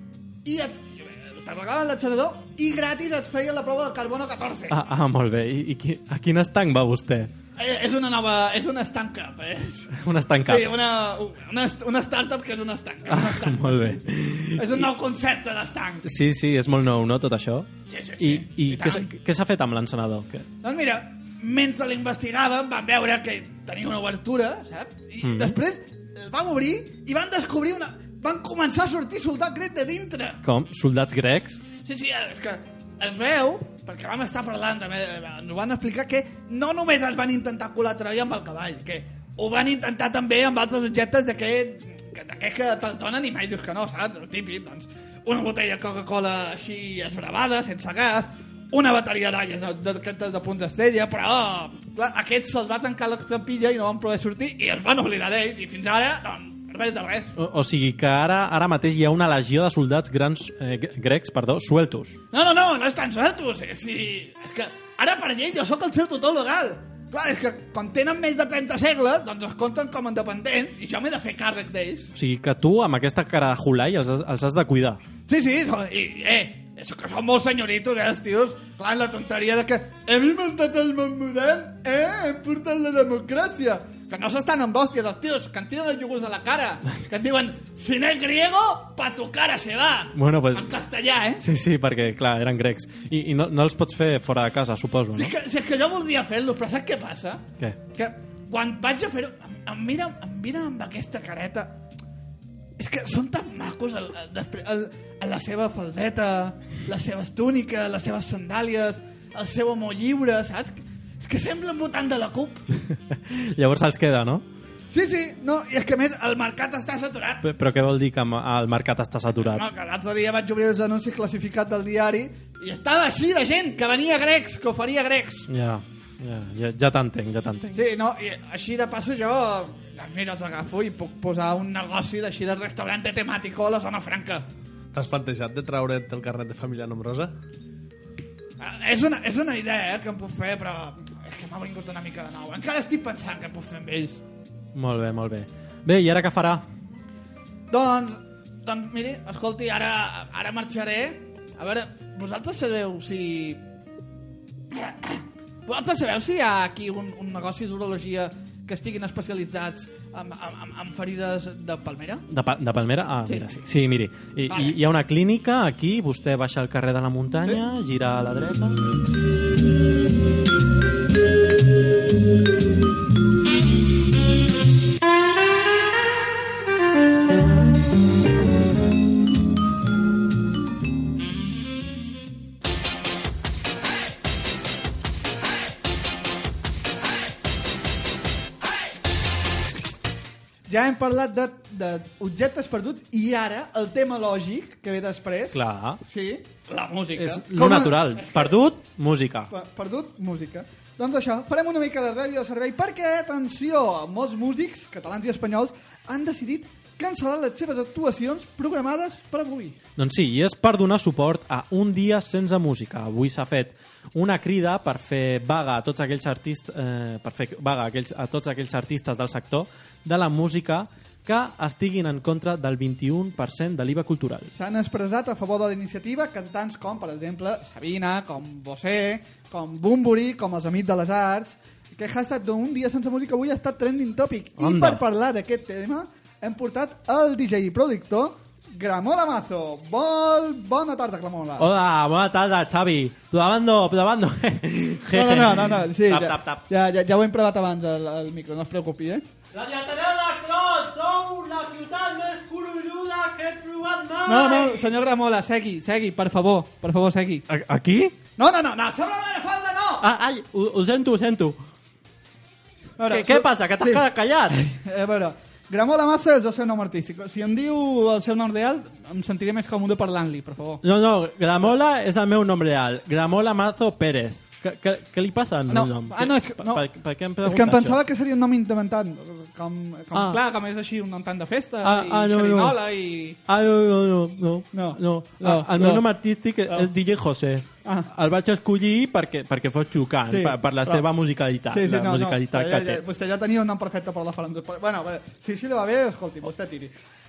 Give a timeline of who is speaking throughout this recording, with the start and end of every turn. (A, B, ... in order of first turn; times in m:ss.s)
0:00.4-0:04.8 A
0:04.7-0:07.3 B
0:07.6-0:09.9 A
0:09.9-0:10.7 B
0:10.4-0:14.0 A
0:13.1-0:14.9 B
0:14.6-0:16.1 A
0:16.0-0:17.7 B
0:17.9-0:19.1 A
0:18.2-0:20.5 B
0:20.6-0:30.4 A
0:25.2-0:25.6 B
0:30.4-0:31.6 B
0:31.8-0:57.3 A
0:57.4-1:02.2 B
1:02.3-1:12.1 A
1:12.2-1:15.0 B
1:15.3-1:31.4 A
1:30.1-1:30.7 B
1:31.4-1:35.3 B
1:35.1-1:41.8 A
1:42.8-1:52.6 A
1:53.1-1:54.4 B
1:54.9-1:57.4 A
1:57.4-1:59.7 B
1:59.4-2:05.5 A
2:05.5-2:07.8 B
2:07.8-2:14.5 A
2:14.9-2:17.3 C
2:18.6-2:24.2 A
2:24.8-2:26.6 B
2:27.7-2:33.6 A
2:34.7-2:42.2 A
2:42.3-2:48.8 B
2:44.5-2:44.8 A
3:10.7-3:18.6 A
3:15.5-3:16.0 B
3:17.2-3:19.5 B
3:19.5-3:29.8 A
3:30.0-3:44.5 B
3:44.5-4:01.7 A
3:54.6-3:55.0 B
4:01.6-4:06.6 B
4:05.1-4:09.2 A
4:09.5-4:14.8 B
4:14.3-4:17.4 A
4:17.5-4:18.2 B
4:18.4-4:20.0 A
4:20.0-4:21.6 B
4:23.0-4:30.8 A
4:23.1-4:24.6 B
4:30.8-4:38.0 B
4:35.7-4:36.8 A
4:37.4-4:43.4 A
4:40.1-4:40.4 B
4:41.8-4:42.8 B
4:43.5-4:53.0 B
4:44.7-4:46.1 A
4:50.3-4:51.0 A
4:51.7-4:56.9 A